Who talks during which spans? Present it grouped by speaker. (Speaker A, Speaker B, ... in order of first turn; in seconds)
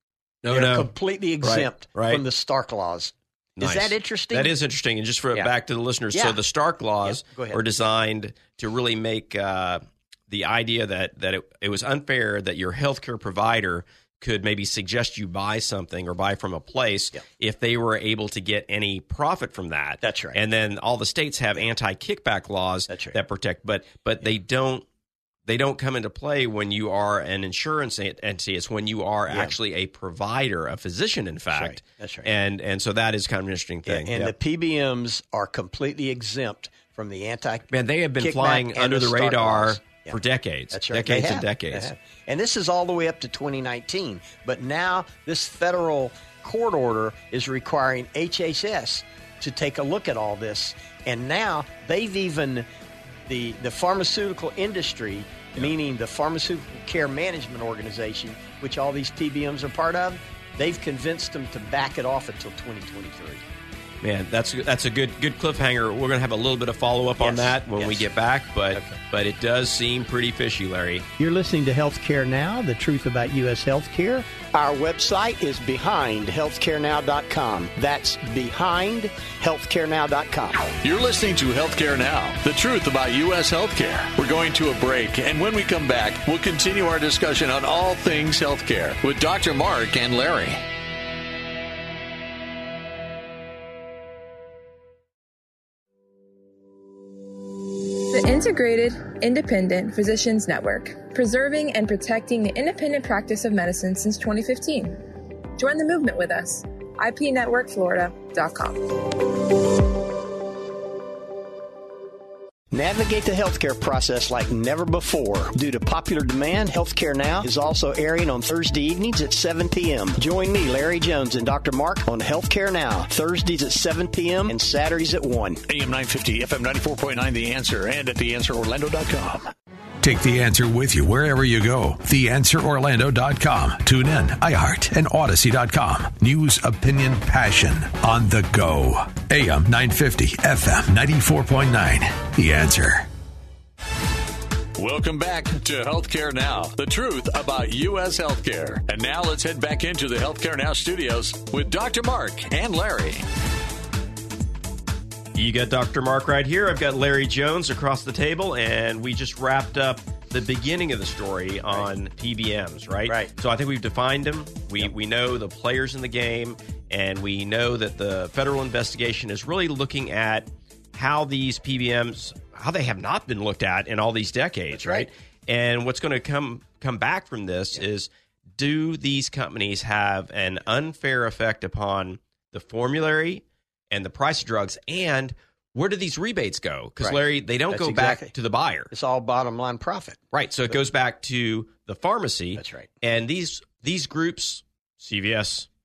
Speaker A: 0.4-0.9, 1.4-2.2, 3.6-24.9, 25.5-34.3, 37.7-41.9, 64.0-71.1, 155.3-188.9, 190.3-195.7
Speaker B: 0.5-4.5, 6.1-6.4, 7.0-7.6, 20.0-20.4, 22.9-23.2, 29.3-29.5, 31.5-32.3, 33.9-40.2, 40.7-52.7, 53.3-63.4, 67.2-68.0, 71.2-80.7, 112.7-125.6, 163.1-163.3, 174.7-175.1, 187.7-188.3, 188.9-190.2, 192.6-192.9
Speaker C: 80.8-90.6, 144.8-153.3
Speaker D: 98.0-105.0, 105.6-109.4
Speaker E: 125.7-129.4
Speaker F: 130.0-143.1